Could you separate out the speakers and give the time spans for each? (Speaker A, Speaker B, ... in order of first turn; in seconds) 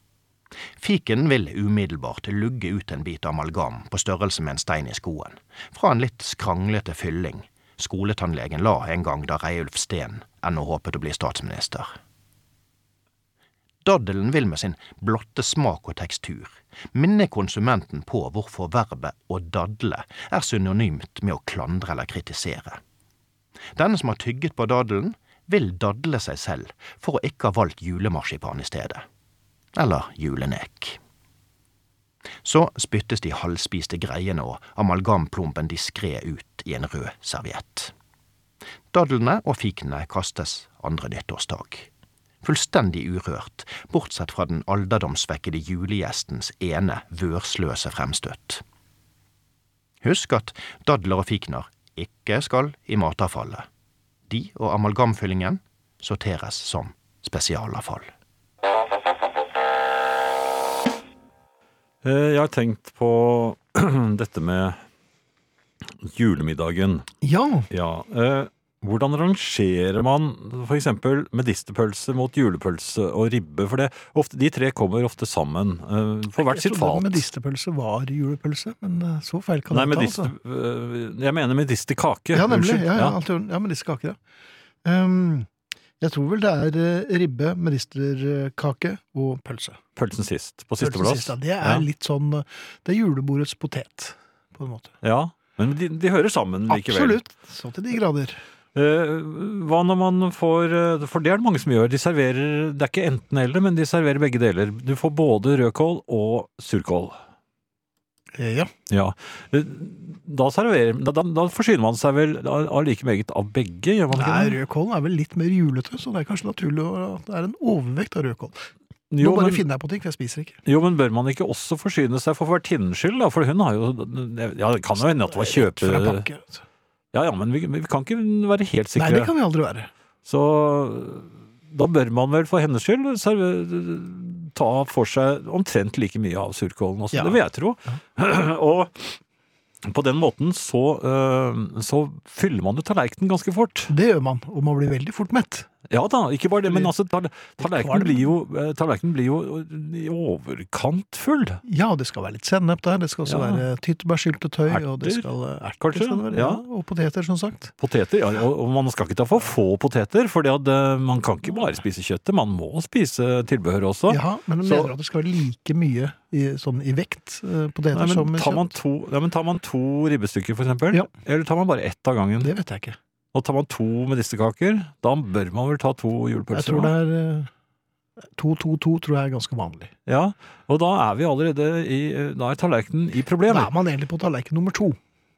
Speaker A: 0.8-11.9, 13.8-22.8, 23.7-29.0, 29.7-31.0, 32.4-37.9, 38.9-41.9, 42.4-48.6, 50.0-53.7, 54.3-58.1
Speaker B: 62.0-64.8, 66.0-67.1, 67.7-77.3, 79.7-83.1, 90.0-91.8, 95.0-97.2, 98.7-107.2, 108.9-114.6, 119.1-119.6, 120.7-126.2, 127.1-129.3, 130.2-139.2, 139.8-143.9, 145.9-151.6, 153.2-153.6, 154.7-155.2, 155.8-156.6, 157.8-164.9, 167.9-172.5, 173.3-176.9, 180.1-183.7
Speaker C: 67.2-67.7, 76.4-80.3, 82.3-84.2, 84.8-89.8, 90.8-94.9, 96.7-98.4, 108.3-108.7, 114.1-118.7, 119.2-120.6, 125.0-126.6, 128.9-129.9, 137.1-137.4, 143.9-145.7, 147.6-148.3, 151.6-157.7, 164.1-168.7, 172.4-173.0, 176.5-177.5, 178.3-179.9, 183.5-185.0